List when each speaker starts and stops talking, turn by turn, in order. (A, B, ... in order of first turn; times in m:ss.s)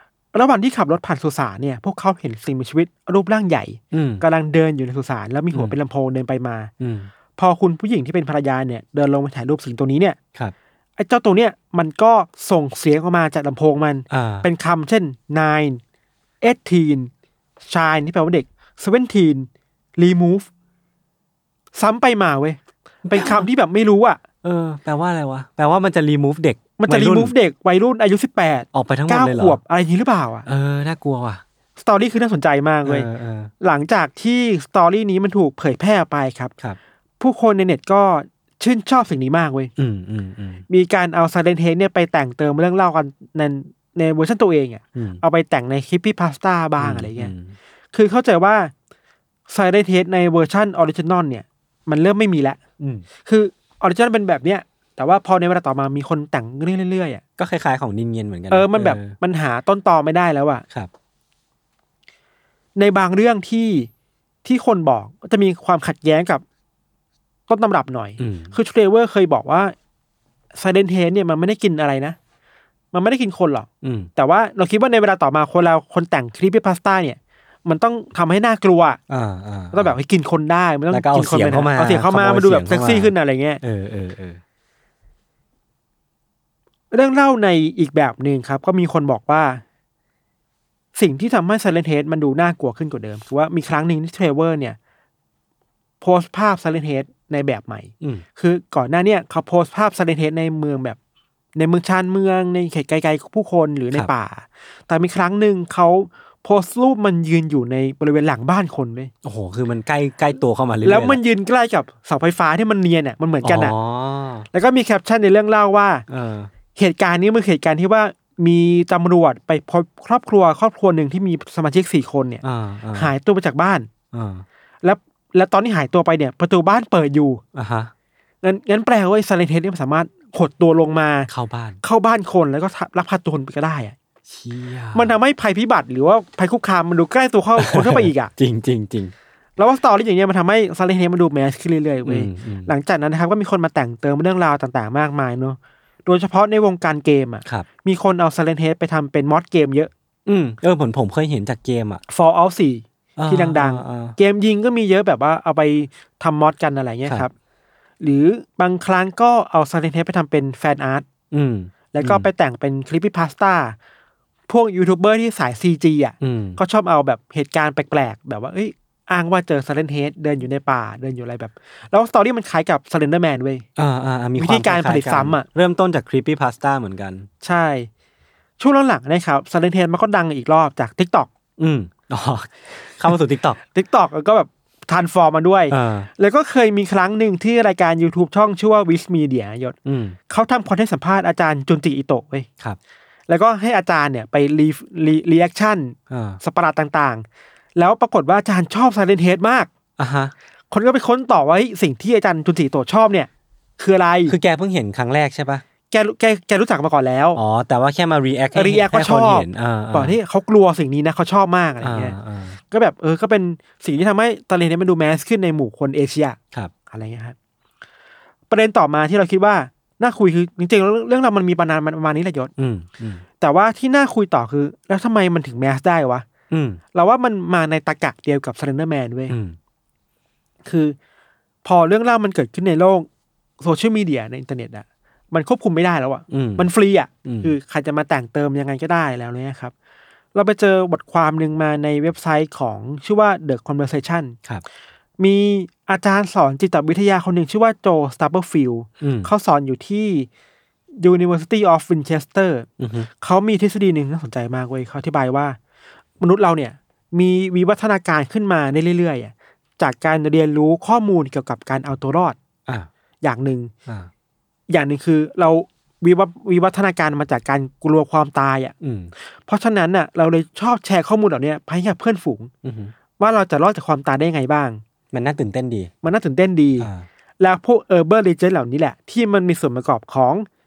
0:00.3-0:06.7 A
0:03.9-0:04.2 B
0:06.8-0:07.1 B
0:07.4-0:10.2 A
0:11.0-0:15.8 A
0:14.1-0:14.5 B
0:16.4-0:17.1 A
0:17.7-0:20.5 A
0:21.8-0:24.2 A
0:23.0-0:23.5 B
0:24.4-0:27.3 B
0:26.8-0:30.5 A
0:28.7-0:29.6 B
0:30.5-0:31.4 B
0:31.8-0:33.1 A
0:32.9-0:33.5 B
0:33.6-0:36.5 A
0:37.2-0:39.7 A
0:39.8-0:40.6 B
0:40.7-0:47.3 A
0:45.0-0:45.2 B
0:46.8-0:47.6 B
0:47.9-0:48.7 A
0:49.5-0:52.6 A
0:52.8-0:53.1 B
0:53.2-0:57.2 A
0:57.4-0:59.2 B
0:58.5-1:00.6 A
1:02.8-1:03.9 A
1:04.4-1:06.4 A
1:07.5-1:09.7 A
1:08.2-1:08.6 B
1:10.6-1:12.2 A
1:12.9-1:19.0 A
1:13.8-1:14.1 B
1:19.1-1:20.0 B
1:19.7-1:23.6 A
1:20.9-1:24.4 B
1:26.9-1:29.6 A
1:31.0-1:34.8 A
1:36.0-1:41.0 A
1:41.6-1:49.1 A
1:49.2-1:51.2 B
1:50.8-1:53.7 A
1:53.4-1:54.5 B
1:54.5-1:56.0 A
1:56.1-1:56.5 B
1:56.8-2:02.4 A
2:02.4-2:03.1 B
2:03.0-2:03.9 A
2:04.1-2:04.4 B
2:04.8-2:07.4 A
2:07.6-2:07.9 B
2:08.4-2:11.3 A
2:11.3-2:11.8 B
2:11.8-2:14.0 A
2:14.3-2:15.2 B
2:15.0-2:18.3 A
2:17.6-2:19.1 B
2:19.6-2:29.9 A
2:22.0-2:22.7 B
2:30.3-2:32.0 B
2:32.1-2:37.3 A
2:33.2-2:34.2 B
2:38.0-2:41.1 A
2:41.3-2:42.3 B
2:41.9-2:43.8 A
2:44.5-2:53.6 A
2:46.2-2:46.6 B
2:53.8-2:57.3 B
2:54.4-2:55.5 A
2:57.4-2:57.9 A
2:58.6-3:01.3 A
3:01.6-3:03.6 B
3:03.7-3:09.8 A
3:05.7-3:06.1 B
3:09.9-3:10.2 B
3:10.3-3:12.5 A
3:13.3-3:17.2 A
3:16.1-3:16.4 B
3:17.8-3:19.7 A
3:20.0-3:20.3 B
3:20.7-3:24.4 A
3:24.3-3:25.6 B
3:25.9-3:27.4 A
3:27.4-3:30.2 B
3:28.5-3:32.2 A
3:31.8-3:32.6 B
3:32.7-3:37.4 A
3:38.5-3:42.5 A
3:42.6-3:43.2 B
3:43.4-3:46.3 A
3:46.5-3:46.8 B
3:46.9-3:49.4 A
3:49.3-3:49.6 B
3:50.6-3:51.0 A
3:51.6-3:53.1 A
3:53.6-3:59.7 A
3:56.3-3:56.7 B
3:57.2-3:57.5 B
4:00.4-4:04.4 A
4:05.2-4:10.3 A
4:09.0-4:09.3 B
4:11.0-4:12.7 A
4:12.8-4:13.1 B
4:13.2-4:15.6 A
4:16.2-4:22.4 A
4:23.2-4:23.7 A
4:24.7-4:28.8 A
4:28.8-4:29.1 B
4:29.5-4:32.5 A
4:32.6-4:32.9 B
4:33.2-4:34.8 A
4:35.1-4:35.9 B
4:36.0-4:40.5 A
4:36.8-4:37.1 B